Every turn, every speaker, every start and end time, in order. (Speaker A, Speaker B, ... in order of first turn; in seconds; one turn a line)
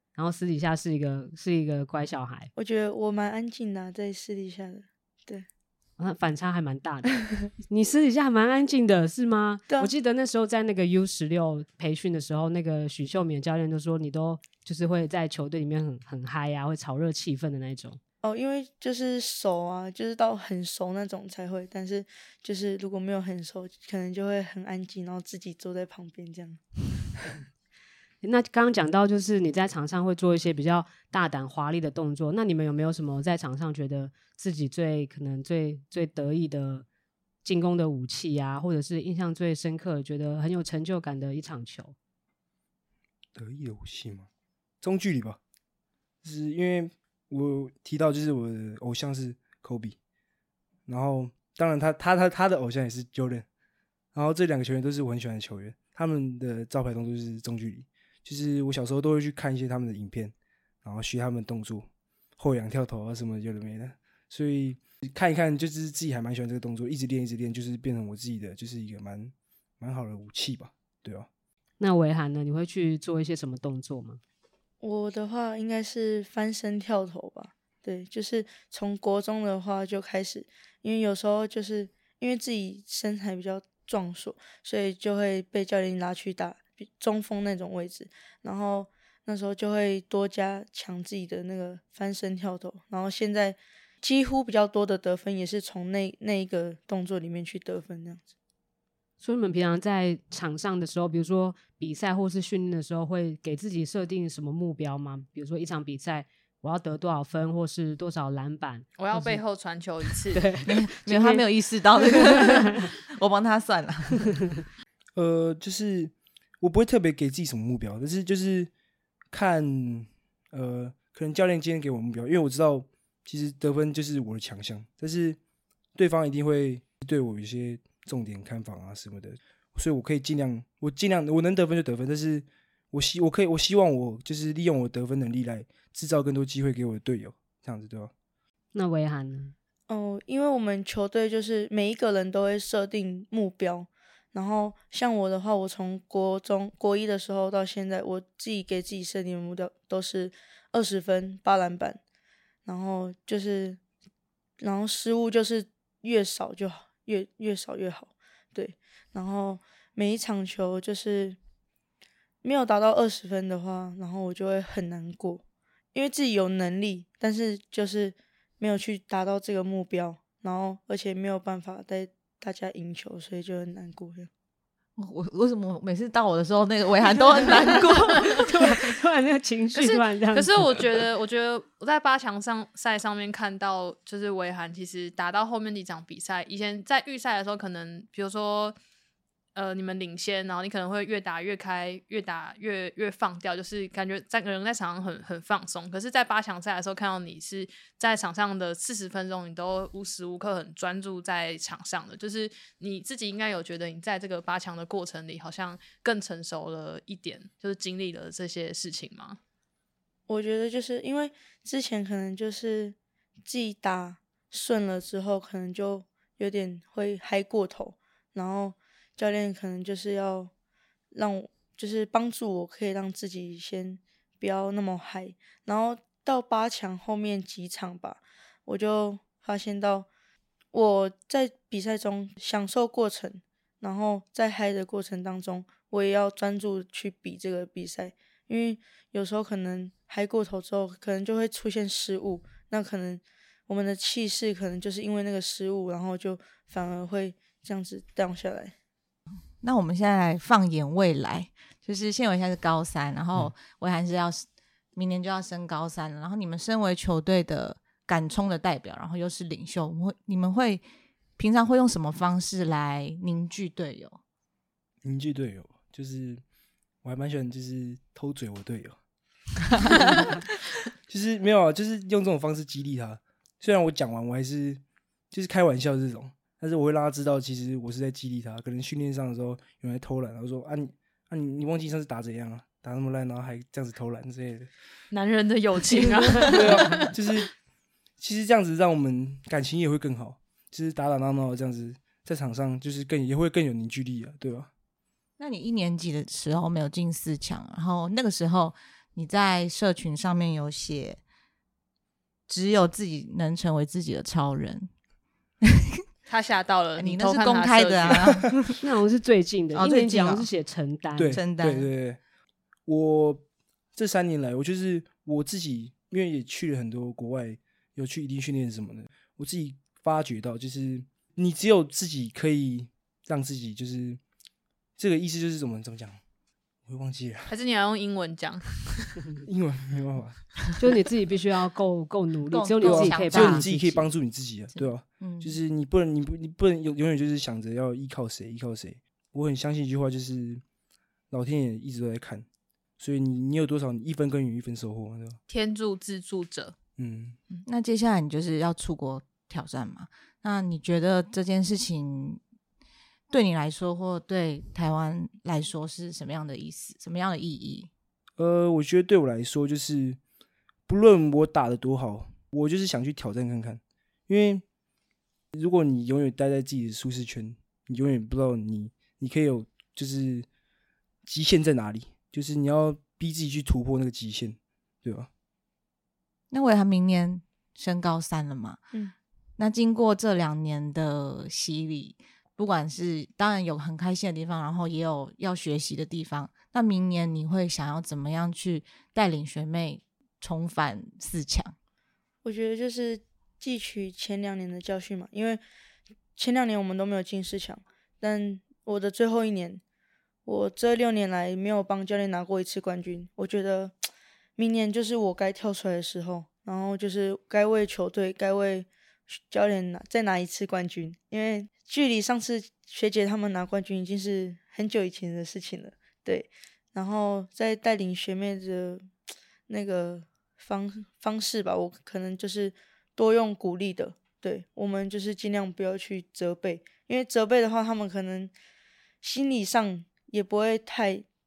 Speaker A: 0.2-2.5
Speaker B: 2.6-5.5
Speaker A: 6.0-18.0
Speaker B: 18.2-26.6
Speaker A: 28.2-36.9
Speaker A: 37.4-42.0
Speaker C: 43.4-44.3
Speaker C: 44.8-45.4
Speaker C: 46.2-50.0
Speaker C: 50.9-53.5
Speaker C: 54.1-61.9
Speaker C: 62.4-71.3
Speaker A: 71.8-74.2
Speaker B: 74.8-98.3
Speaker A: 99.2-109.4
Speaker D: 109.0-110.5
Speaker A: 110.3-111.5
Speaker E: 110.7-114.3
Speaker A: 112.0-112.8
Speaker C: 115.2-118.7
Speaker C: 119.3-125.4
Speaker C: 126.0-138.1
Speaker A: 138.7-139.5
Speaker B: 139.9-152.0
Speaker B: 152.7-153.8
Speaker B: 154.6-161.4
Speaker B: 162.4-165.4
Speaker B: 165.9-174.3
Speaker E: 175.0-178.8
Speaker A: 177.9-180.8
Speaker D: 179.8-188.8
Speaker D: 189.6-209.4
Speaker B: 210.3-220.5
Speaker B: 221.1-230.1
Speaker B: 230.7-248.7
Speaker E: 249.6-260.8
Speaker E: 261.4-264.2
Speaker C: 265.0-266.4
Speaker C: 267.0-269.0
Speaker C: 271.1-284.7
Speaker D: 285.1-287.1
Speaker A: 286.4-286.7
Speaker C: 286.5-287.5
Speaker C: 288.2-294.7
Speaker E: 295.4-301.2
Speaker E: 302.5-304.9
Speaker D: 306.3-308.5
Speaker E: 307.0-308.8
Speaker A: 308.8-311.4
Speaker E: 309.7-310.5
Speaker C: 311.2-312.2
Speaker E: 311.3-311.9
Speaker C: 312.9-313.4
Speaker C: 313.9-324.2
Speaker C: 325.0-326.2
Speaker C: 326.9-327.5
Speaker D: 327.5-329.2
Speaker C: 329.4-330.4
Speaker A: 330.8-333.9
Speaker E: 332.5-334.1
Speaker C: 332.8-340.6
Speaker E: 334.7-335.6
Speaker C: 341.3-342.5
Speaker C: 343.0-345.4
Speaker D: 345.5-346.7
Speaker C: 347.0-347.4
Speaker E: 347.6-352.4
Speaker E: 353.3-357.9
Speaker C: 358.4-360.2
Speaker C: 360.9-364.6
Speaker C: 365.5-370.5
Speaker C: 371.3-375.3
Speaker E: 376.5-378.8
Speaker E: 379.6-391.7
Speaker B: 392.4-395.6
Speaker B: 396.4-399.8
Speaker B: 400.4-403.9
Speaker B: 404.6-419.1
Speaker B: 419.7-428.5
Speaker B: 429.2-431.3